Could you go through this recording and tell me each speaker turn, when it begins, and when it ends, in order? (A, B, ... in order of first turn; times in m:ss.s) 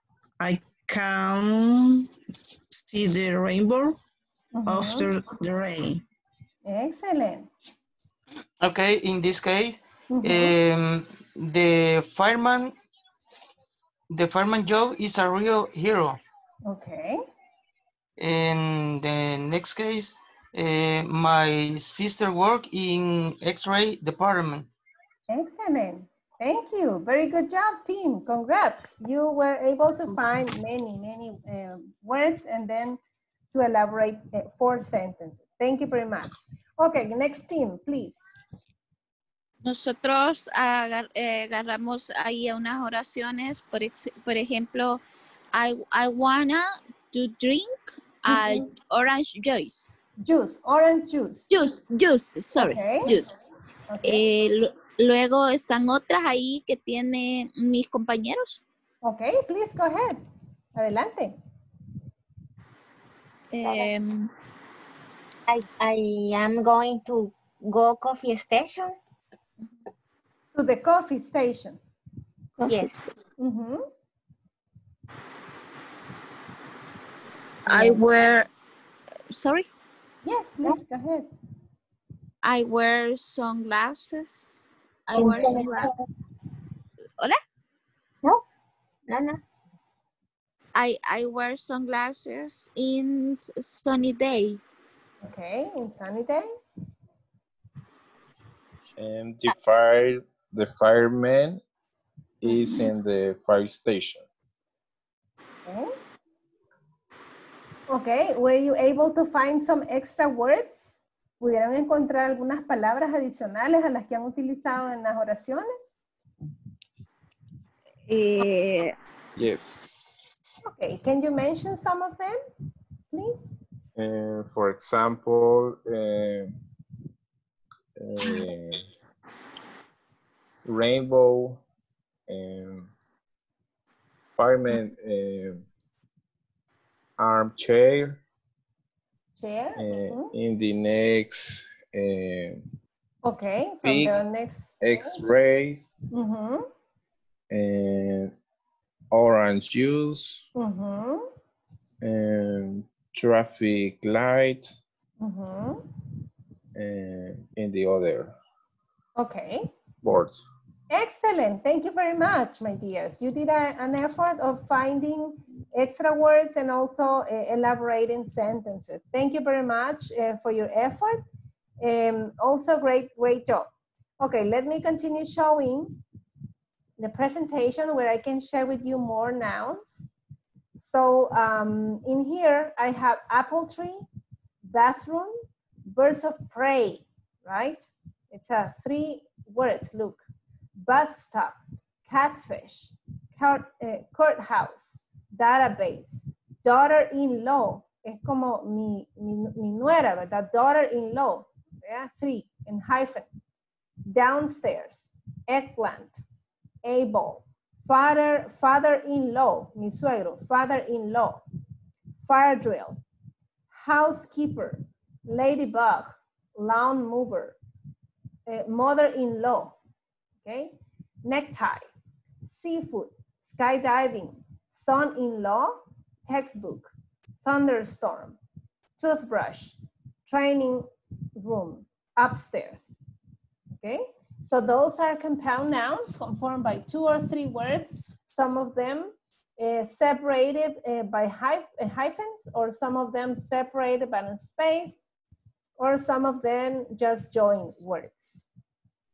0:00.4-0:02.1 A
0:02.8-0:04.0 A
0:04.5-0:05.1 B
0:04.7-0:06.0 A
0:06.6-0:07.5 B
0:08.6-0:12.7 C
0:10.1-0:10.6 B
0:14.1-0:16.2 C
0:16.7-0:17.2 B
0:18.2-0:24.7 C
0:25.3-0:33.0 B
0:33.5-0:38.3 B
0:39.6-0:45.0 D
0:45.5-0:49.9 D
0:48.3-0:48.7 B
0:50.2-0:51.5 B
0:51.5-0:53.4 D
0:52.6-0:53.1 B
0:53.9-0:54.2 B
0:54.0-0:58.6 D
0:59.0-1:00.2 B
1:00.8-1:01.4 B
1:03.5-1:04.3 D
1:03.6-1:03.9 E
1:05.5-1:09.0 E
1:10.5-1:11.8 B
1:12.7-1:13.0 E
1:13.4-1:13.9 B
1:17.7-1:18.5 D
1:17.7-1:18.0 E
1:19.3-1:19.7 D
1:20.2-1:21.3 B
1:22.4-1:25.9 D
1:25.2-1:25.9 E
1:29.1-1:29.4 E
1:30.8-1:34.6 D
1:35.2-1:36.7 B
1:39.0-1:41.6 F
1:42.4-1:44.2 F
1:45.7-1:45.9 B
1:47.9-1:55.9 B
1:58.1-1:59.0 D
1:59.4-2:00.6 F
2:00.6-2:02.4 B
2:03.1-2:03.6 B
2:04.0-2:06.5 F
2:08.0-2:08.8 F
2:10.6-2:11.6 F
2:12.3-2:12.9 F
2:14.4-2:15.6 F
2:17.2-2:18.2 F
2:19.4-2:20.3 B
2:19.8-2:22.6 F
2:23.2-2:25.2 B
2:23.8-2:24.2 F
2:24.8-2:25.9 F
2:26.1-2:26.7 B
2:27.5-2:28.3 F
2:29.1-2:30.4 F
2:30.6-2:31.3 B
2:32.0-2:34.8 F
2:35.2-2:35.9 B
2:36.8-2:38.4 F
2:39.2-2:39.7 B
2:40.0-2:40.5 F
2:40.9-2:51.2 B
2:51.8-2:53.7 B
2:54.2-2:56.0 B
2:57.0-3:00.1 B
3:00.8-3:04.0 B
3:04.7-3:10.2 B
3:10.8-3:23.3 B
3:24.1-3:26.2 B
3:26.8-3:31.4 B
3:32.2-3:33.0 B
3:33.7-3:37.6 B
3:38.5-3:39.8 B
3:40.4-3:41.9 B
3:42.4-3:48.4 B
3:49.0-3:53.0 B
3:53.8-4:05.0 B
4:05.8-4:08.4 B